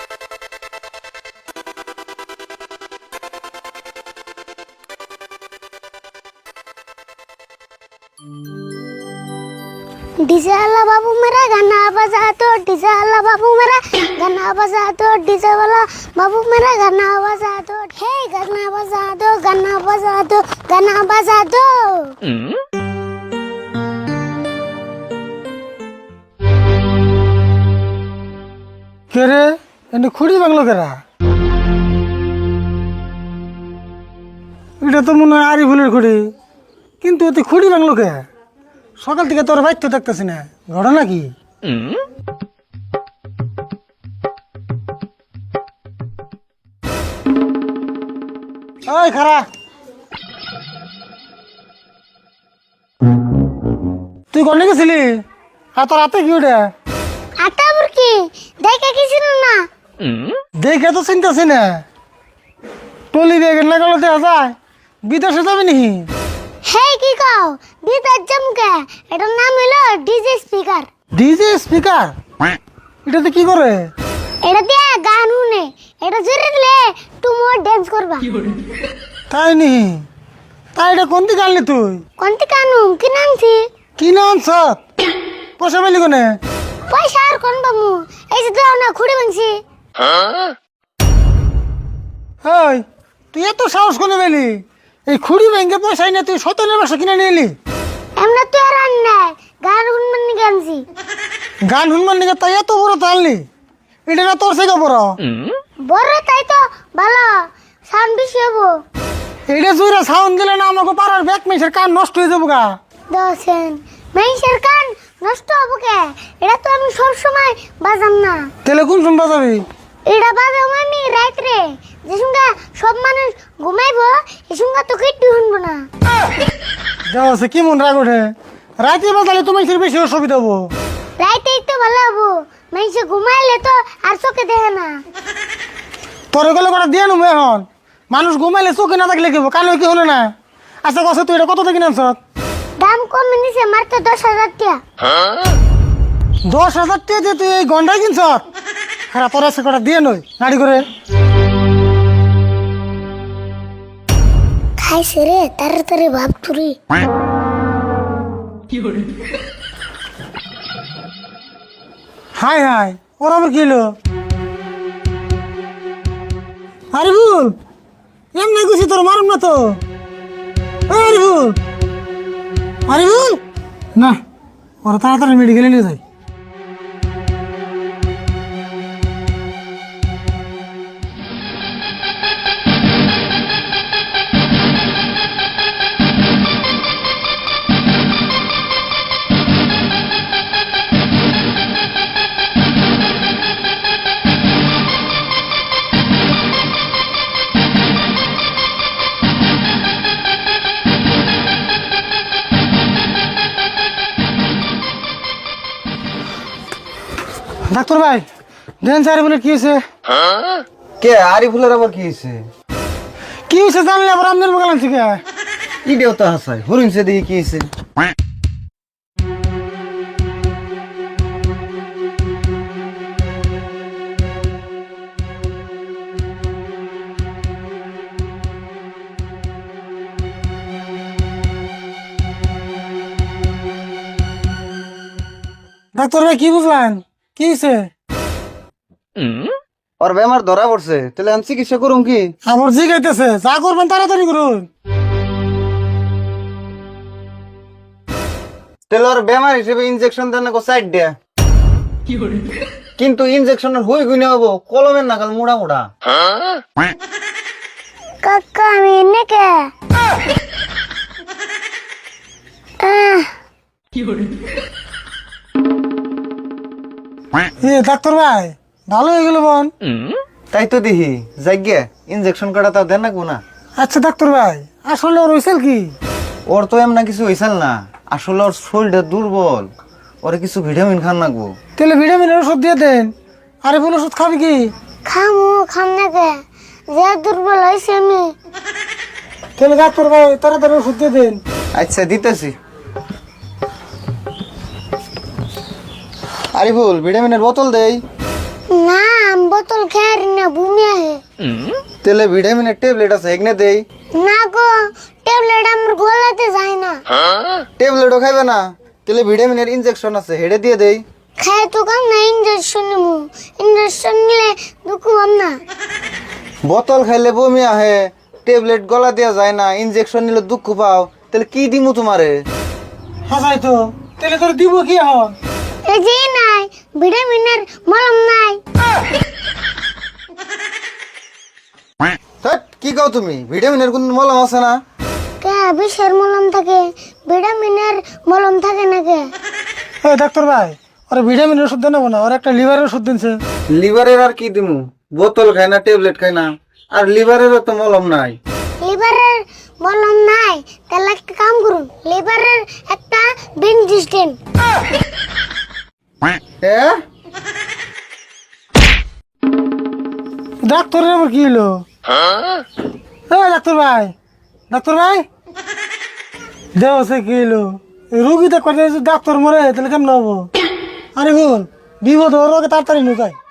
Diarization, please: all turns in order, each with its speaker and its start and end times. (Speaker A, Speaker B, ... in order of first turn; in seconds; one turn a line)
Speaker A: 10.2-22.2
Speaker B: 29.1-31.0
Speaker B: 34.8-36.3
Speaker B: 37.0-38.3
Speaker B: 39.0-41.3
Speaker B: 48.9-49.5
Speaker B: 54.3-55.2
Speaker B: 55.8-56.7
Speaker A: 57.4-59.6
Speaker B: 60.6-61.8
Speaker B: 63.1-66.1
Speaker A: 66.7-70.9
Speaker B: 71.2-72.2
Speaker B: 73.1-73.9
Speaker A: 74.4-78.3
Speaker B: 79.3-80.0
Speaker B: 80.8-82.0
Speaker A: 82.2-83.7
Speaker B: 84.0-84.8
Speaker B: 85.6-86.4
Speaker A: 86.9-89.6
Speaker B: 92.4-97.5
Speaker A: 98.2-100.8
Speaker B: 101.7-103.5
Speaker B: 104.1-105.2
Speaker A: 105.8-108.8
Speaker B: 109.5-112.7
Speaker A: 113.1-118.5
Speaker B: 118.7-119.7
Speaker A: 120.1-125.9
Speaker B: 127.1-128.3
Speaker B: 128.8-130.7
Speaker A: 131.2-135.0
Speaker B: 136.3-140.3
Speaker B: 140.8-142.2
Speaker A: 142.8-144.8
Speaker B: 146.5-148.4
Speaker B: 149.1-150.9
Speaker A: 154.8-156.8
Speaker B: 162.4-163.9
Speaker B: 166.9-167.6
Speaker B: 168.3-169.8
Speaker B: 170.9-171.6
Speaker B: 172.9-173.4
Speaker B: 173.9-174.2
Speaker B: 174.8-176.0
Speaker B: 207.7-208.3
Speaker B: 208.8-209.8
Speaker C: 211.0-212.4
Speaker B: 213.5-215.2
Speaker C: 215.8-217.7
Speaker B: 235.9-237.9
Speaker C: 240.0-242.3
Speaker B: 242.5-244.7
Speaker C: 248.9-251.1
Speaker C: 253.0-255.8
Speaker A: 258.2-259.7
Speaker A: 262.8-263.3
Speaker B: 267.6-269.7
Speaker C: 270.5-273.4
Speaker B: 273.8-275.9
Speaker C: 276.5-279.7
Speaker C: 280.2-281.5
Speaker B: 281.8-283.1
Speaker B: 283.6-284.7
Speaker A: 285.1-288.3
Speaker B: 289.6-291.4
Speaker C: 291.8-292.5
Speaker C: 296.6-298.0
Speaker A: 298.7-301.2
Speaker C: 302.0-303.8
Speaker A: 304.2-307.0
Speaker C: 307.8-311.0
Speaker A: 311.4-315.6
Speaker C: 316.6-322.4
Speaker B: 323.3-325.3
Speaker A: 325.9-328.6
Speaker C: 332.4-334.8
Speaker A: 335.4-339.3
Speaker B: 340.0-343.4
Speaker C: 343.7-348.4
Speaker A: 348.8-354.4
Speaker C: 356.6-357.0
Speaker B: 360.6-361.8
Speaker B: 363.3-364.1
Speaker B: 364.7-365.2
Speaker B: 366.8-370.5
Speaker B: 371.2-373.4